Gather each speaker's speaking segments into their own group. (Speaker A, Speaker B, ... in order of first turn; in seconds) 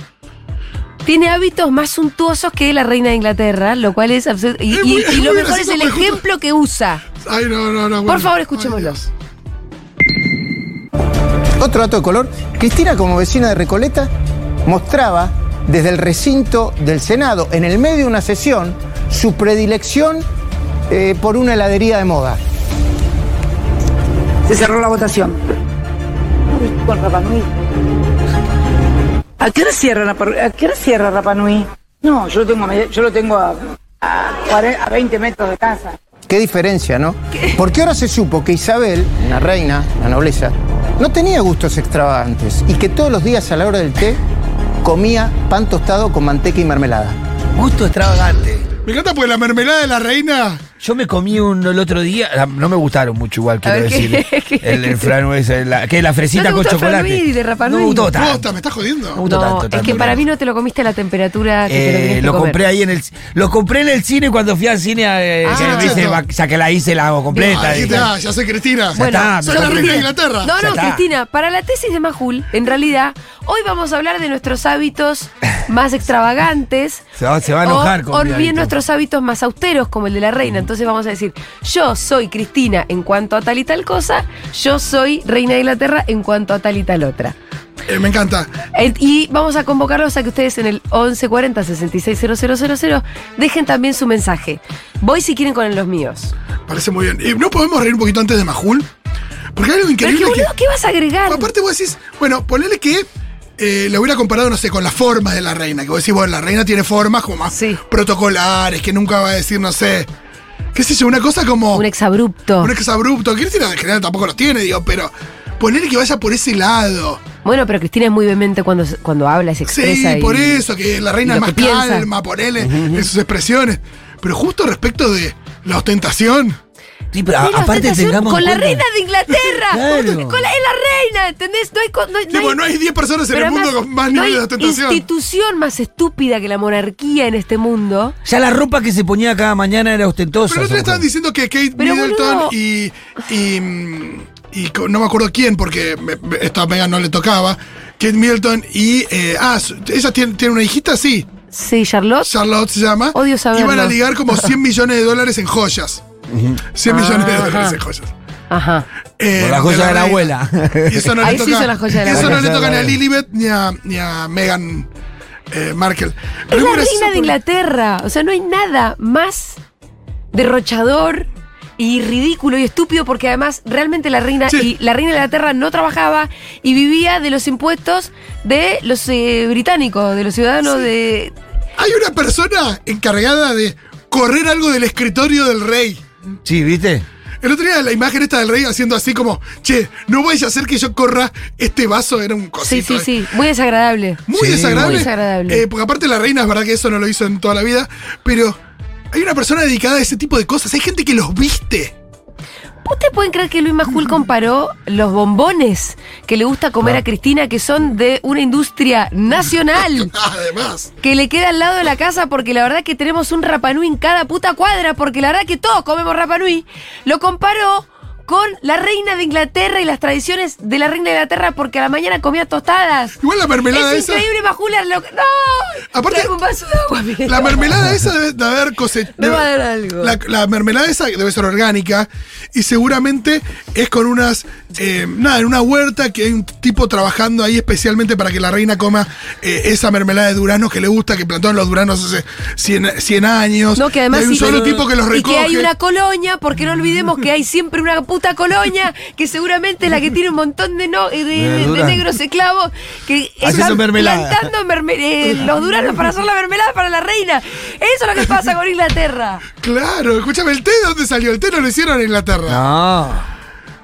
Speaker A: 1.1-7.0, 8.1-9.0, 53.6-55.1, 56.3-58.1, 59.2-62.6, 65.4-66.0, 67.3-68.1, 69.0-77.0, 77.6-87.3, 88.7-96.3, 100.0-101.5, 107.5-107.8, 111.7-112.7, 117.4-120.6, 121.3-122.1, 127.4-132.6, 133.3-138.2, 141.8-142.5, 151.5-152.3, 153.1-154.0, 156.9-157.8, 158.5-158.9, 161.2-162.5, 166.5-169.6, 170.3-181.3, 192.6-195.6, 202.8-210.1, 211.0-223.2, 223.7-227.6, 229.2-230.2, 243.8-259.4
Speaker B: 4.7-6.2, 7.2-9.1, 48.9-50.6, 58.1-59.2, 65.5-66.2, 67.5-70.5, 87.9-88.5, 96.7-98.9, 99.6-100.5, 101.3-103.1, 103.6-110.1, 110.8-111.9, 112.6-117.2, 119.7-126.6, 132.3-135.0, 140.5-151.3, 152.2-156.0, 156.7-158.1, 159.2-160.3, 160.9-164.9, 165.5-167.4, 181.8-186.0, 187.4-193.1, 194.3-198.6, 199.1-201.9, 210.0-210.9, 223.2-224.2, 225.9-226.3, 227.2-229.5, 230.0-245.7, 253.5-253.8, 255.4-256.0, 259.6-262.6
Speaker C: 11.6-14.1, 14.7-20.2, 20.9-22.4, 36.3-44.2, 44.8-47.2
Speaker D: 24.5-25.4, 26.6-27.5, 29.4-36.0
Speaker E: 47.5-48.7, 50.8-58.5, 59.1-60.3, 61.7-68.1, 69.0-71.0, 77.2-78.8, 122.6-123.1, 127.1-128.8, 129.7-130.4, 138.2-141.1, 156.3-156.6, 159.3-161.4, 162.1-163.0, 186.4-187.1, 194.3-195.1, 251.3-252.1, 253.4-254.5, 262.5-263.3